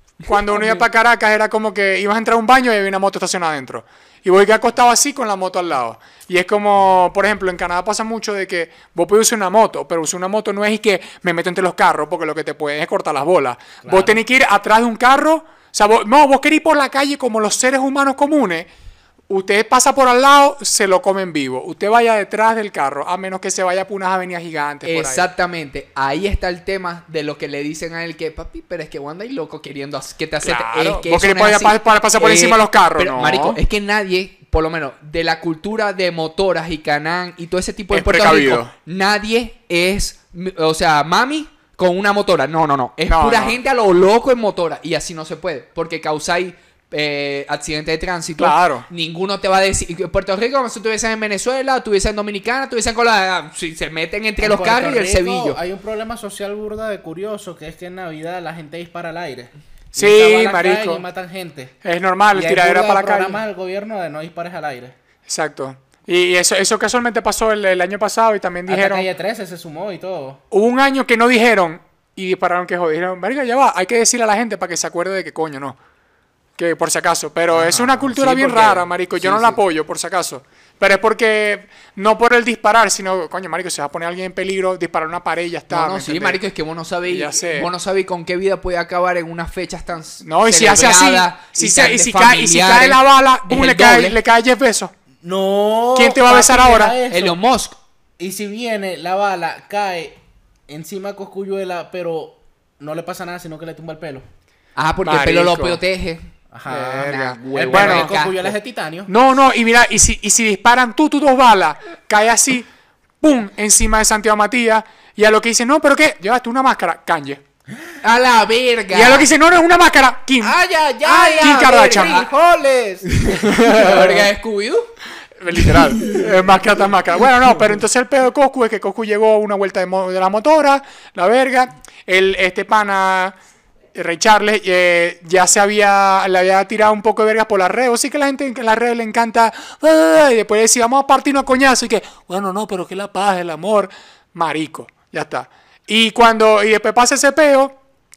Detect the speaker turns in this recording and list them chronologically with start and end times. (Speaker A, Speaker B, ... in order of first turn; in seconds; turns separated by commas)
Speaker A: 0.2-18.7, Speaker B: 13.8-14.2, Speaker A: 19.3-25.3, Speaker C: 24.8-55.6, Speaker A: 30.4-33.6, Speaker A: 37.9-38.7, Speaker A: 43.1-43.6, Speaker A: 48.4-48.9, Speaker B: 54.4-61.7, Speaker A: 59.9-61.0, Speaker A: 61.8-63.4, Speaker B: 62.3-64.9, Speaker A: 65.3-69.1, Speaker B: 68.7-70.4, Speaker A: 70.5-75.8, Speaker A: 76.6-86.4, Speaker B: 77.5-78.0, Speaker C: 78.0-79.6, Speaker C: 85.7-94.2, Speaker A: 87.1-87.7, Speaker A: 90.2-94.9, Speaker B: 95.2-97.4, Speaker A: 95.9-97.0, Speaker C: 97.1-97.8, Speaker B: 98.2-104.2, Speaker C: 104.8-106.2, Speaker A: 105.0-105.8, Speaker B: 106.5-109.1, Speaker A: 106.7-108.1, Speaker C: 107.0-108.5, Speaker A: 109.1-112.7, Speaker A: 113.2-117.4, Speaker C: 118.0-119.3, Speaker A: 118.9-122.2, Speaker B: 120.4-123.9, Speaker C: 121.9-122.3, Speaker C: 123.0-124.9, Speaker A: 123.5-124.1, Speaker A: 125.4-133.3, Speaker C: 125.6-126.2, Speaker A: 133.9-147.8